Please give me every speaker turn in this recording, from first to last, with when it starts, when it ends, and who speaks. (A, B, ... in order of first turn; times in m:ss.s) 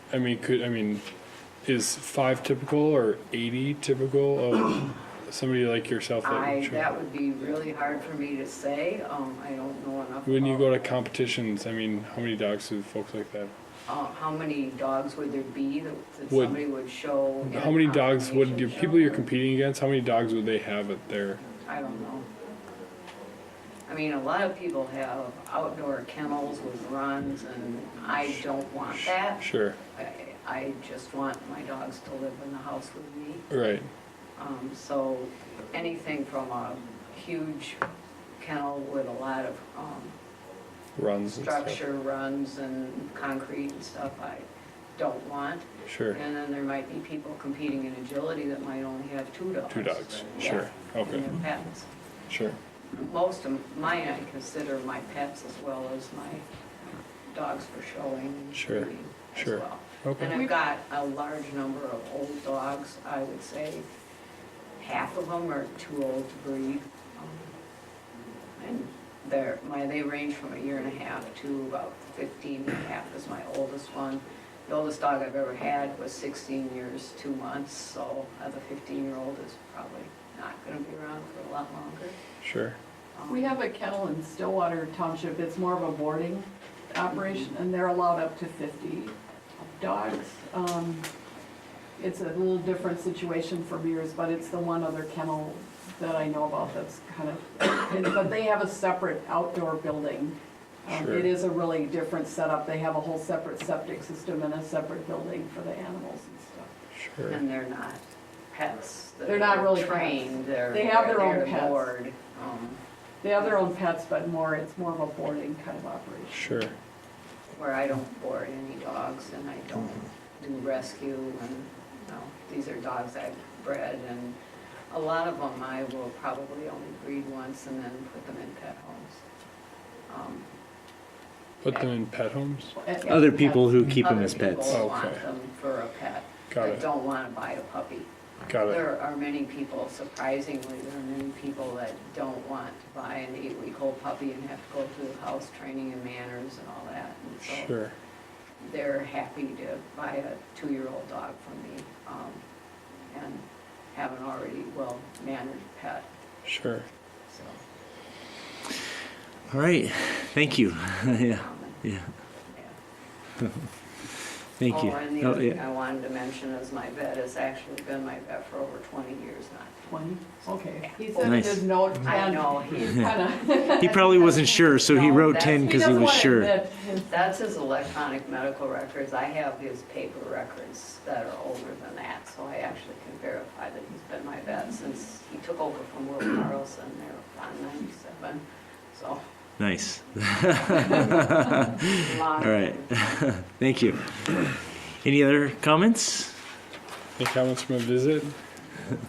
0:00.1-0:01.1 A
0:01.6-0:06.9 A
0:06.2-0:10.8 B
0:10.2-0:13.5 A
0:13.9-0:19.3 B
0:16.3-0:16.6 A
0:17.4-0:21.4 A
0:21.6-0:22.3 B
0:23.9-0:29.4 B
0:28.9-0:29.8 A
0:30.0-0:33.4 B
0:33.5-0:33.9 A
0:34.4-0:37.8 B
0:38.4-0:40.1 B
0:41.0-0:41.8 A
0:41.3-0:51.9 B
0:45.9-0:46.2 A
0:49.7-0:51.3 A
0:52.3-0:52.6 A
0:52.9-0:56.4 B
0:57.3-1:03.9 B
0:58.5-1:00.4 A
1:04.8-1:07.5 B
1:08.6-1:22.2 B
1:22.4-1:22.8 A
1:23.1-1:23.6 B
1:23.3-1:31.1 C
1:27.1-1:27.5 B
1:32.0-1:46.7 C
1:40.9-1:41.3 A
1:47.0-1:47.4 A
1:47.3-1:52.8 B
1:49.3-1:51.9 C
1:53.2-1:56.5 C
1:53.4-1:53.6 B
1:56.3-1:56.8 A
1:57.5-2:04.4 B
2:04.9-2:09.2 B
2:10.1-2:10.5 B
2:11.6-2:12.7 A
2:12.8-2:13.6 C
2:13.0-2:18.1 B
2:13.1-2:14.8 D
2:14.7-2:15.2 A
2:16.5-2:16.9 A
2:18.5-2:18.8 A
2:18.6-2:27.7 B
2:27.4-2:27.9 A
2:28.6-2:32.4 B
2:33.1-2:36.1 B
2:36.5-2:36.9 A
2:37.3-2:37.6 B
2:39.5-2:42.1 D
2:41.2-2:41.9 B
2:42.4-2:42.7 B
2:44.6-2:45.6 D
2:44.7-2:49.7 B
2:49.9-2:57.3 C
2:51.1-2:51.4 B
2:51.2-2:51.9 D
2:52.0-2:53.2 B
2:53.0-2:56.6 D
2:54.7-2:56.4 B
2:57.0-3:09.2 B
3:09.6-3:16.4 D
3:10.7-3:12.9 B
3:17.2-3:18.4 A